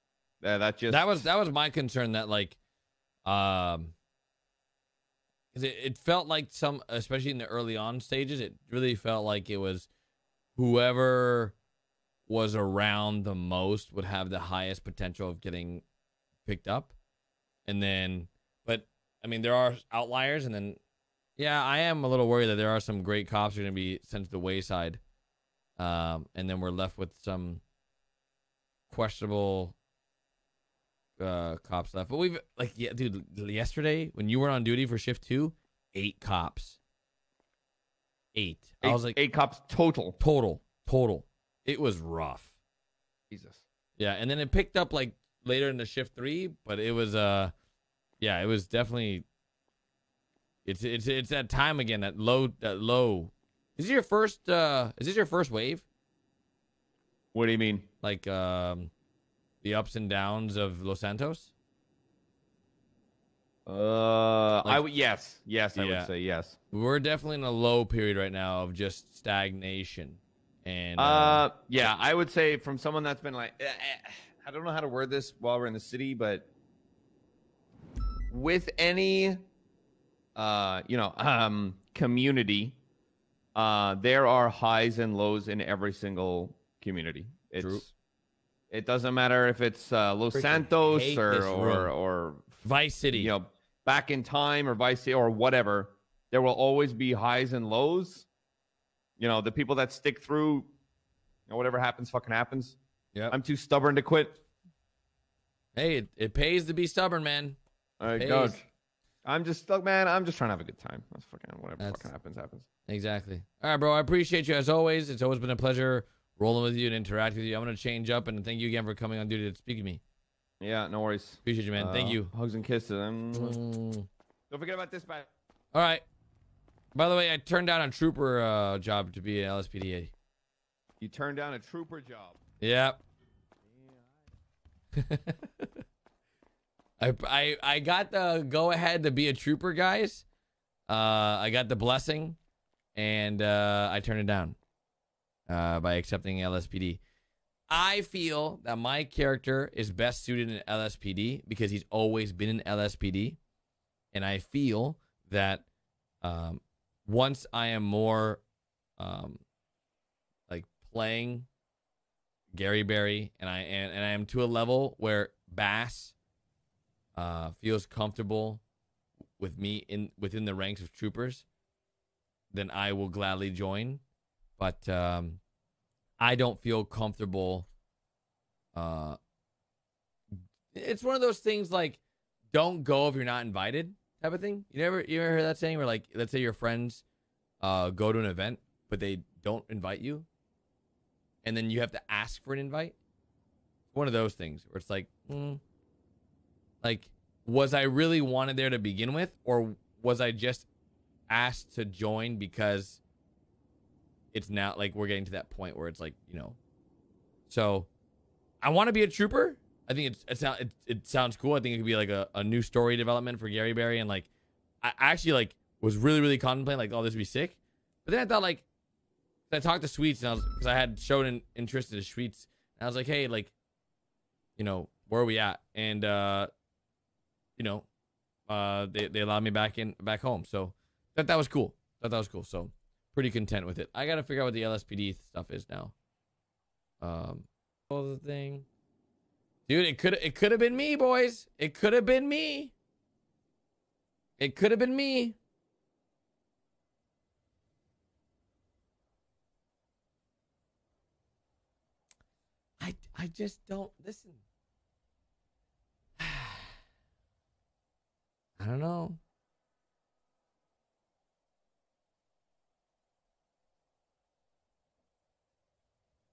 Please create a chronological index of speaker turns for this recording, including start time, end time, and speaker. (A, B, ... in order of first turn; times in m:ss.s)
0:00.4-0:01.3 A
0:00.9-0:02.6 B
0:03.2-0:03.9 B
0:05.5-0:09.9 B
0:10.6-0:11.5 B
0:12.3-0:15.8 B
0:16.4-0:16.9 B
0:17.6-0:20.8 B
0:21.4-0:25.0 B
0:25.8-0:27.6 B
0:28.9-0:29.8 B
0:31.2-0:36.8 B
0:38.3-0:39.2 B
0:38.8-0:40.2 A
0:40.2-0:42.5 B
0:43.3-0:43.6 A
0:44.0-0:47.5 B
0:48.2-0:49.2 B
0:50.6-0:55.8 B
0:57.3-0:57.8 A
0:58.0-0:58.9 B
0:59.6-1:01.5 B
1:03.7-1:06.6 A
1:05.8-1:06.1 B
1:06.7-1:11.5 B
1:11.0-1:16.5 A
1:18.3-1:19.4 A
1:20.3-1:22.8 A
1:23.5-1:27.9 A
1:27.6-1:27.9 B
1:28.7-1:38.3 A
1:30.3-1:31.9 B
1:32.6-1:33.3 B
1:39.2-1:40.7 A
1:41.5-1:42.8 A
1:43.3-1:44.4 A
1:45.7-1:47.6 B
1:48.0-1:48.6 A
1:48.1-1:48.6 B
1:49.2-1:52.6 A
1:51.8-1:52.1 B
1:52.9-2:00.0 B
2:00.6-2:03.6 A
2:01.4-2:02.3 B
2:03.3-2:04.1 B
2:04.5-2:05.3 A
2:05.7-2:06.0 B
2:06.9-2:10.1 B
2:11.0-2:12.4 A
2:12.6-2:13.0 B
2:15.0-2:15.6 B
2:17.0-2:20.2 B
2:20.9-2:22.4 B
2:22.9-2:24.6 B
2:25.5-2:27.0 B
2:27.7-2:33.4 B
2:34.1-2:35.6 B
2:36.2-2:38.4 B
2:39.0-2:39.4 B
2:40.5-2:41.5 B
2:42.5-2:46.1 B
2:47.1-2:48.6 B
2:49.4-2:51.4 B
2:52.5-2:54.0 B
2:54.6-2:55.4 B
2:56.2-2:57.7 B
2:58.7-2:59.2 B
3:00.7-3:02.0 B
3:02.5-3:07.0 B
3:07.6-3:10.2 B
3:11.4-3:13.0 B
3:13.9-3:15.6 B
3:16.8-3:20.7 B
3:21.3-3:23.0 B
3:24.3-3:26.6 B
3:27.5-3:27.9 B
3:28.6-3:34.3 B
3:34.8-3:38.6 B
3:39.5-3:43.5 B
3:44.6-3:46.5 B
3:47.6-3:47.9 B
3:48.5-3:55.9 B
3:57.0-3:58.6 B
3:59.7-4:02.7 B
4:04.4-4:05.4 B
4:12.8-4:14.4 B
4:16.2-4:16.8 B
4:18.6-4:19.2 B